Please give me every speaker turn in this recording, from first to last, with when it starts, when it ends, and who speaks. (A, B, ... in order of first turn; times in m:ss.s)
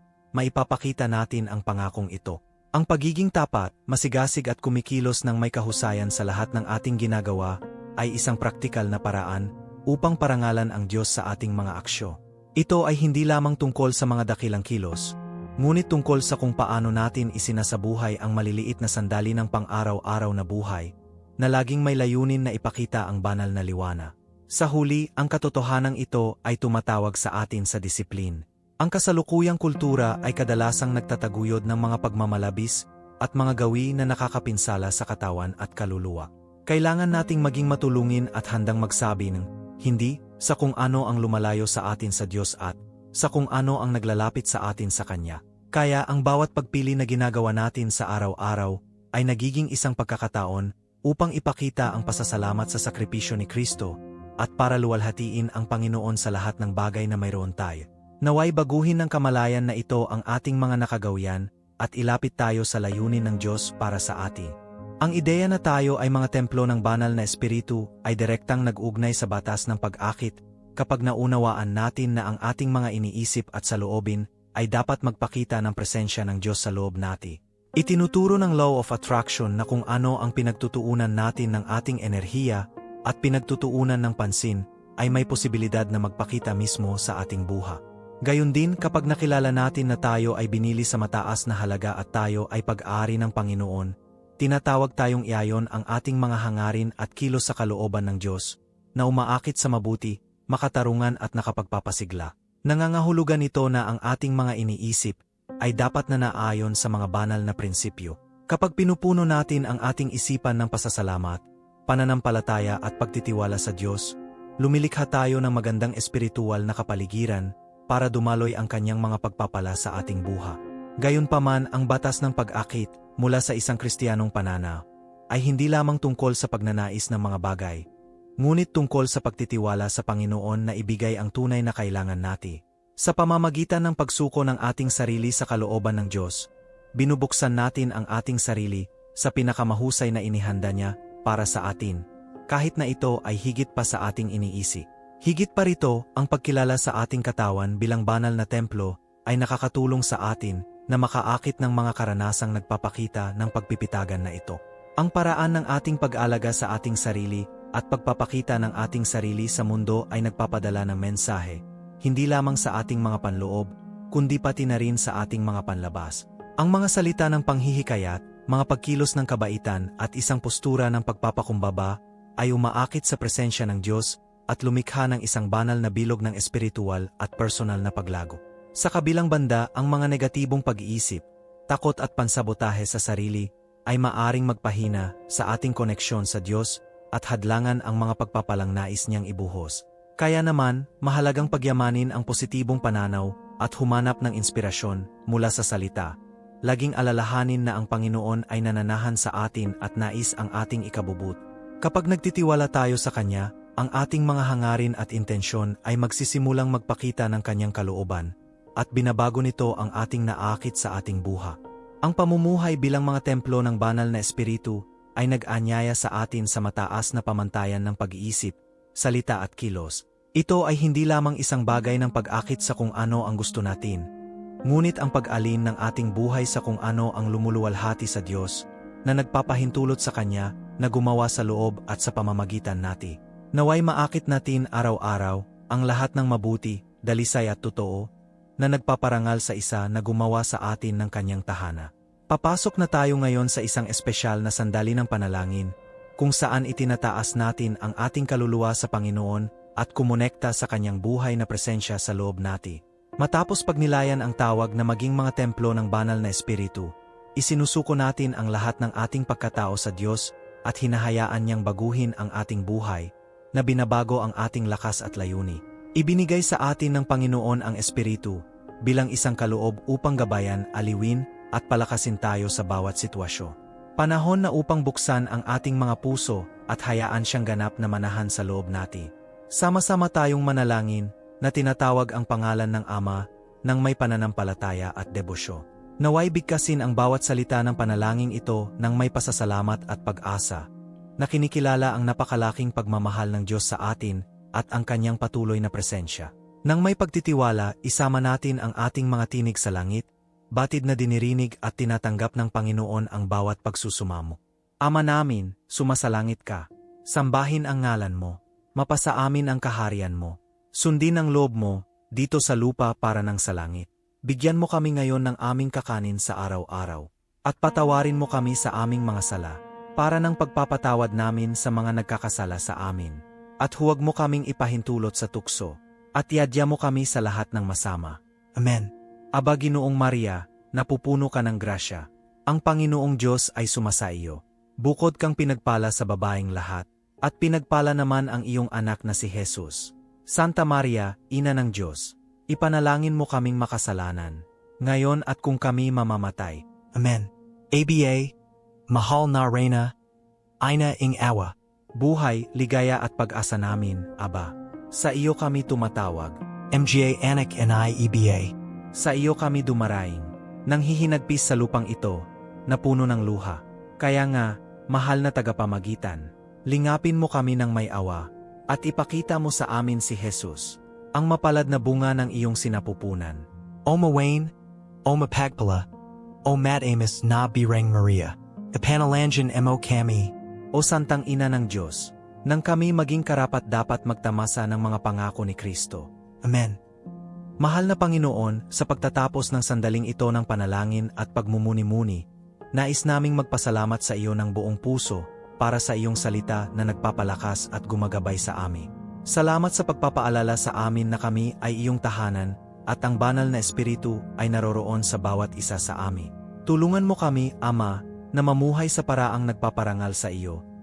0:00.3-2:07.8 A
2:08.4-3:16.1 A
3:16.6-3:44.0 A
3:44.6-3:58.1 A
3:58.6-4:50.6 A
4:51.2-5:48.3 A
5:48.9-5:49.9 A
5:50.6-6:14.5 A
6:15.0-6:15.9 A
6:16.4-6:26.8 A
6:27.6-6:50.6 A